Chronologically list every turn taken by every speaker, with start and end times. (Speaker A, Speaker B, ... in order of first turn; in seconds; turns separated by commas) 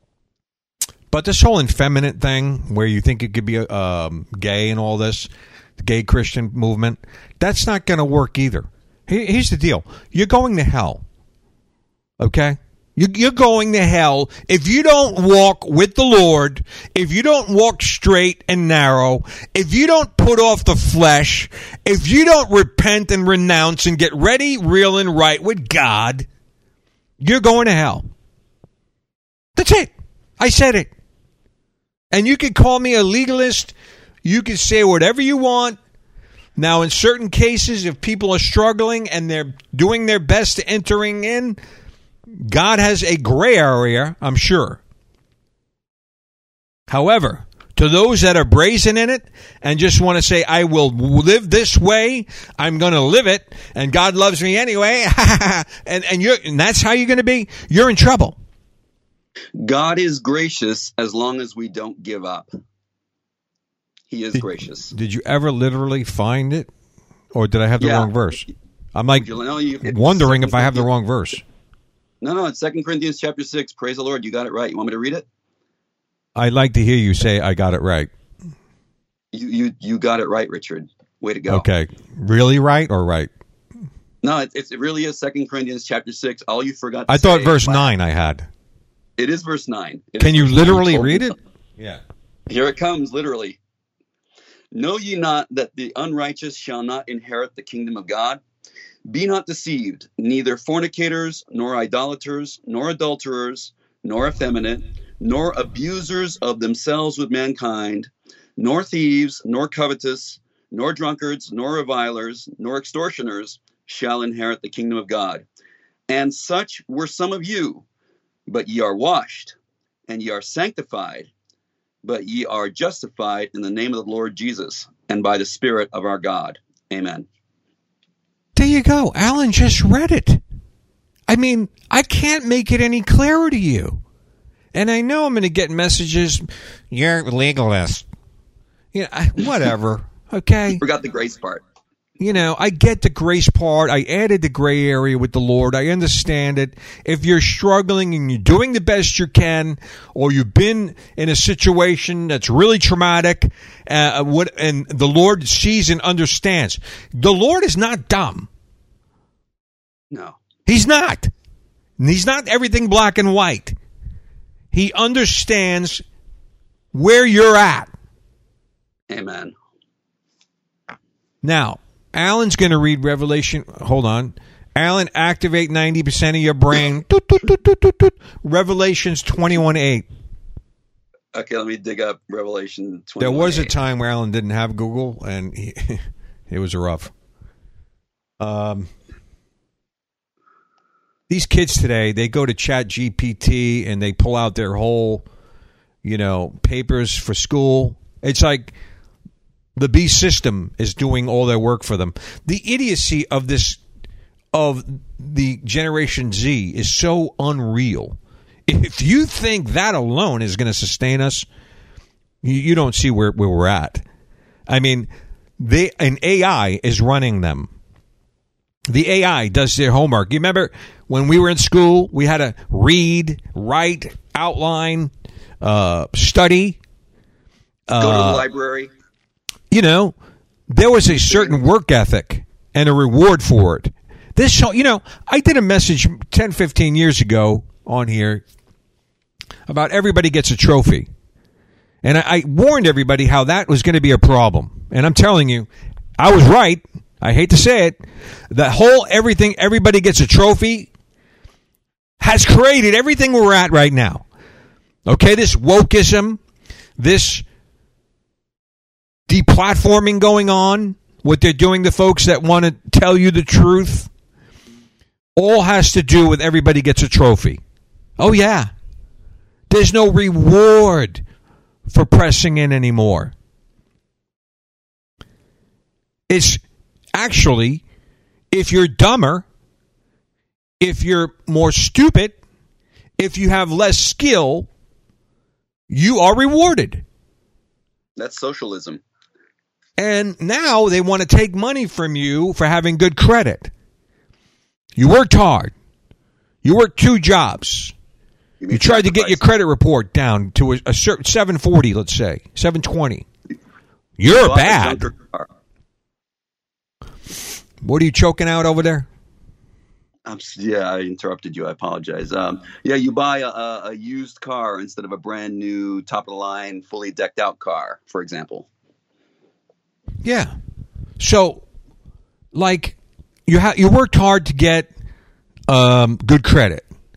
Speaker A: 1.1-11.0, Speaker A: 12.2-26.3, Speaker A: 27.2-28.1, Speaker A: 29.6-30.9, Speaker A: 32.1-35.8, Speaker A: 36.5-41.6, Speaker A: 42.3-44.8, Speaker A: 46.9-58.4, Speaker B: 59.6-62.5, Speaker B: 64.1-64.9, Speaker A: 64.3-66.7, Speaker A: 67.3-69.3, Speaker B: 67.8-68.1, Speaker B: 69.2-70.9, Speaker A: 69.8-71.4, Speaker B: 72.2-75.2, Speaker A: 76.3-78.1, Speaker B: 79.3-81.7, Speaker A: 81.5-83.3, Speaker B: 84.2-87.9, Speaker A: 87.1-88.5, Speaker B: 89.2-91.3, Speaker A: 90.2-92.0, Speaker B: 92.5-93.6, Speaker B: 94.7-98.4, Speaker B: 99.1-115.4, Speaker B: 116.1-117.8, Speaker B: 118.5-119.5, Speaker B: 120.1-121.3, Speaker B: 122.0-127.3, Speaker A: 128.5-130.4, Speaker A: 131.3-134.0, Speaker A: 134.7-138.1, Speaker A: 138.9-140.8, Speaker B: 140.8-141.6, Speaker A: 142.2-158.5, Speaker B: 160.1-160.4, Speaker A: 160.7-161.3, Speaker A: 162.0-163.8, Speaker A: 164.7-166.0, Speaker A: 166.9-167.9, Speaker B: 169.1-169.5, Speaker A: 171.4-180.1, Speaker B: 181.3-183.7, Speaker A: 183.2-187.1, Speaker A: 188.4-188.9, Speaker A: 191.3-195.2, Speaker A: 196.0-198.7, Speaker A: 199.8-203.8, Speaker A: 204.5-211.5, Speaker A: 212.4-214.0, Speaker A: 214.7-217.7, Speaker A: 218.9-226.8, Speaker A: 227.9-228.4, Speaker B: 228.0-228.9, Speaker A: 229.7-230.1, Speaker A: 230.7-238.4, Speaker B: 231.3-231.6, Speaker A: 239.7-241.1, Speaker A: 242.0-248.0, Speaker A: 248.5-250.9, Speaker A: 252.2-254.2, Speaker A: 255.1-256.4, Speaker A: 257.0-257.4, Speaker A: 259.3-264.1, Speaker A: 265.4-267.6, Speaker A: 268.2-268.7, Speaker A: 269.7-271.2, Speaker A: 271.9-273.3, Speaker A: 276.3-276.6, Speaker A: 277.1-277.8, Speaker A: 278.5-279.4, Speaker A: 280.8-282.4, Speaker A: 283.2-284.7, Speaker A: 285.9-287.0, Speaker B: 288.2-289.0, Speaker A: 290.0-293.7, Speaker A: 294.9-295.7, Speaker A: 296.6-297.9, Speaker B: 298.6-299.4, Speaker A: 298.7-303.2, Speaker A: 304.2-305.1, Speaker B: 304.3-305.5, Speaker A: 307.8-309.1, Speaker B: 310.2-318.7, Speaker A: 320.2-320.5, Speaker A: 321.2-321.6, Speaker A: 322.5-324.9, Speaker A: 325.7-326.8